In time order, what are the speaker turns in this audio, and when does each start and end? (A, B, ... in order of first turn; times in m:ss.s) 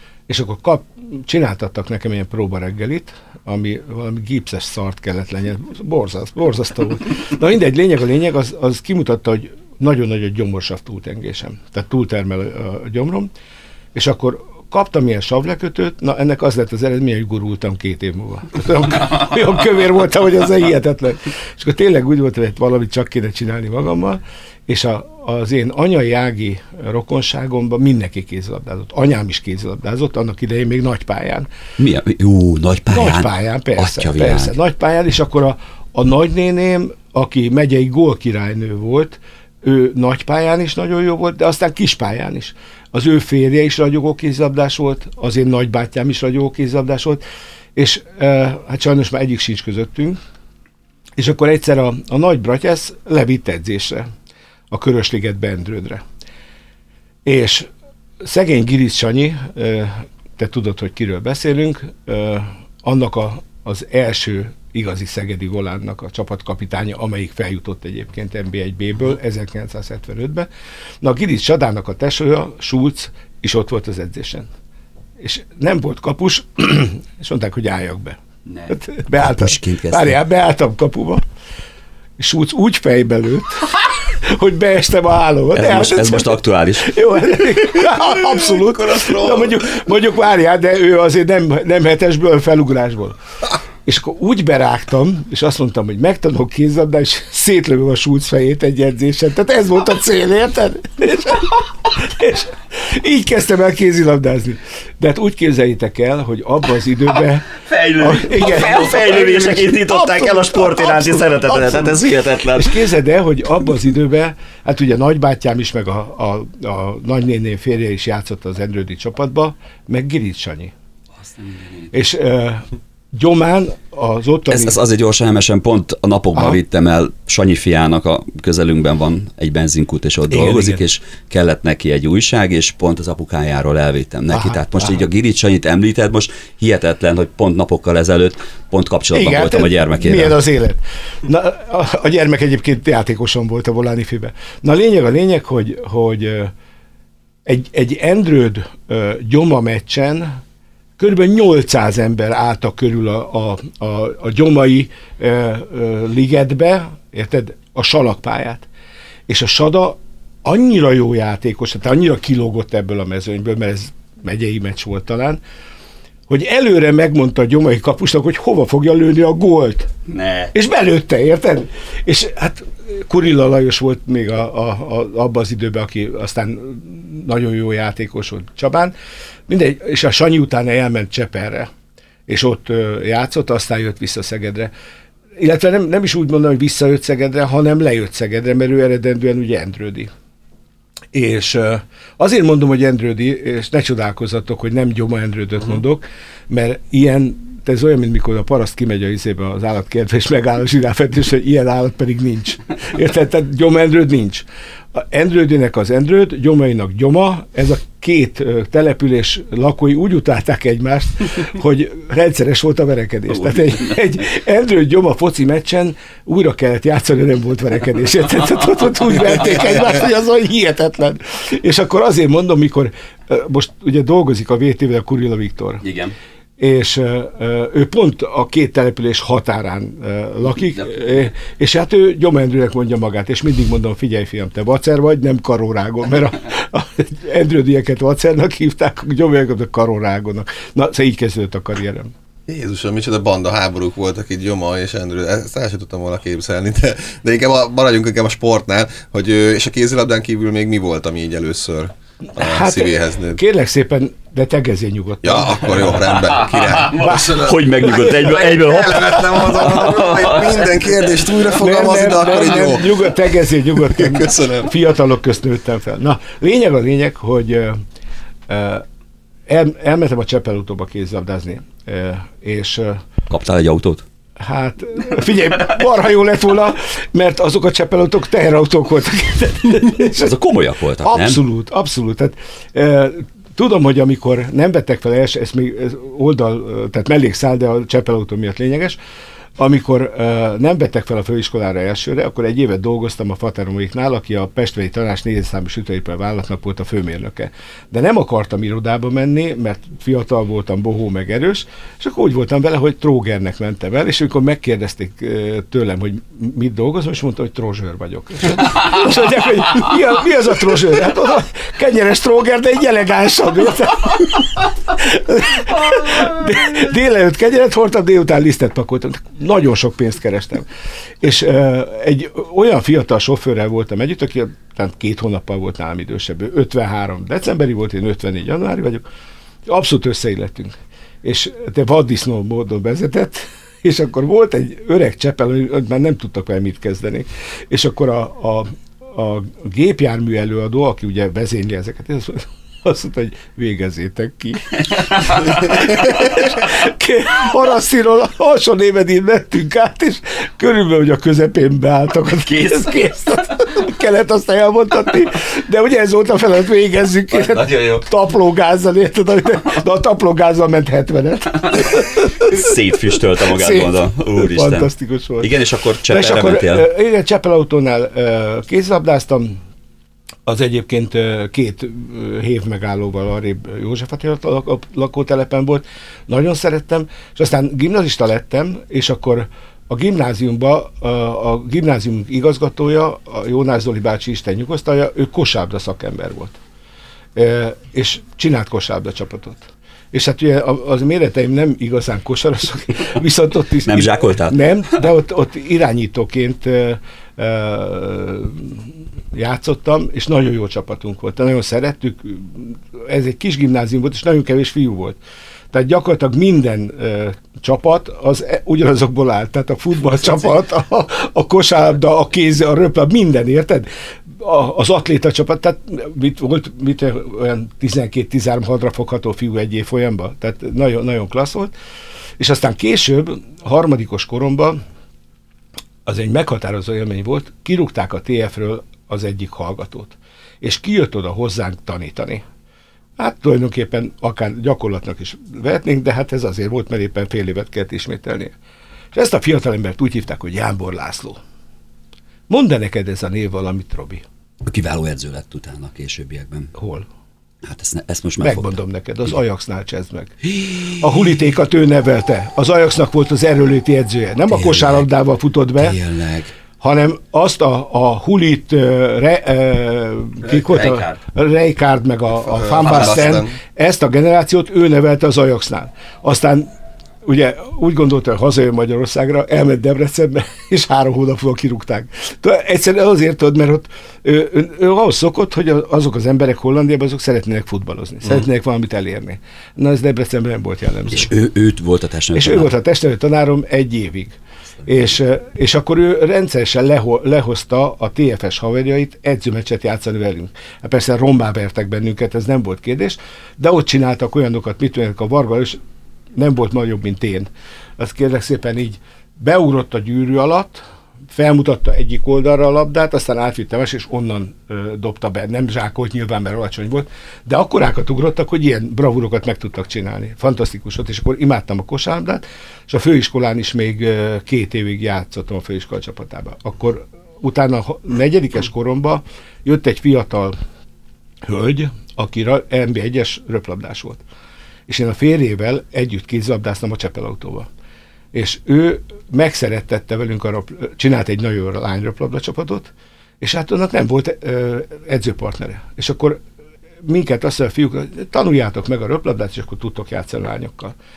0:00.3-0:13.3 A
0:13.9-0:31.5 A
0:31.8-0:34.6 B
0:32.9-0:47.2 A
0:47.7-0:50.2 A
0:51.2-0:54.1 A
0:54.7-0:56.0 A
0:57.2-0:57.7 A
0:58.2-1:10.5 A
1:11.0-1:14.5 A
1:15.2-1:21.2 A
1:18.5-1:20.2 B
1:22.2-1:33.1 A
1:25.5-1:26.9 B
1:29.0-1:29.3 C
1:33.8-1:52.0 A
1:47.6-1:52.8 B
1:52.5-2:00.7 A
2:01.4-2:01.8 B
2:01.9-2:04.8 A
2:04.5-2:20.4 B
2:10.3-2:10.8 A
2:14.3-2:15.0 A
2:19.1-2:26.5 A
2:27.4-2:30.4 A
2:31.0-2:38.7 A
2:39.3-2:45.4 A
2:46.3-2:49.9 A
2:50.1-2:50.5 B
2:50.5-2:58.9 A
2:59.5-3:01.7 A
3:02.3-3:04.7 A
3:05.4-3:10.1 A
3:11.1-3:45.8 A
3:45.8-3:46.1 B
3:46.6-4:02.1 A
4:02.5-4:13.4 C
4:12.4-4:16.2 A
4:15.2-4:24.7 C
4:16.2-4:20.7 B
4:16.7-4:19.9 A
4:21.4-4:27.8 A
4:28.5-4:28.8 A
4:29.5-4:33.0 A
4:33.3-4:34.0 B
4:34.4-4:40.4 A
4:40.2-4:41.4 B
4:41.0-4:49.0 A
4:49.6-5:20.7 A
5:21.2-5:29.0 A
5:29.6-6:02.7 A
5:57.3-5:58.0 B
6:02.4-6:04.9 B
6:03.4-6:05.5 A
6:05.4-6:06.9 B
6:06.1-6:09.6 A
6:10.4-6:26.6 A
6:27.3-6:45.2 A
6:33.8-6:34.6 B
6:45.7-7:01.7 A
7:02.4-7:04.8 A
7:06.0-7:12.4 A
7:13.2-7:18.5 A
7:19.1-7:21.4 A
7:22.5-7:24.2 A
7:24.6-7:26.7 B
7:26.7-7:27.1 A
7:27.6-7:28.7 B
7:28.4-7:36.0 A
7:34.5-7:35.0 B
7:35.8-7:36.5 B
7:36.8-7:46.7 A
7:40.5-7:41.2 B
7:42.4-7:43.5 C
7:47.2-8:01.3 A
8:01.1-8:02.7 B
8:02.3-8:15.8 A
8:16.3-8:40.5 A
8:41.4-8:44.2 A
8:44.9-8:47.7 A
8:48.3-8:56.4 A
8:57.0-9:01.0 A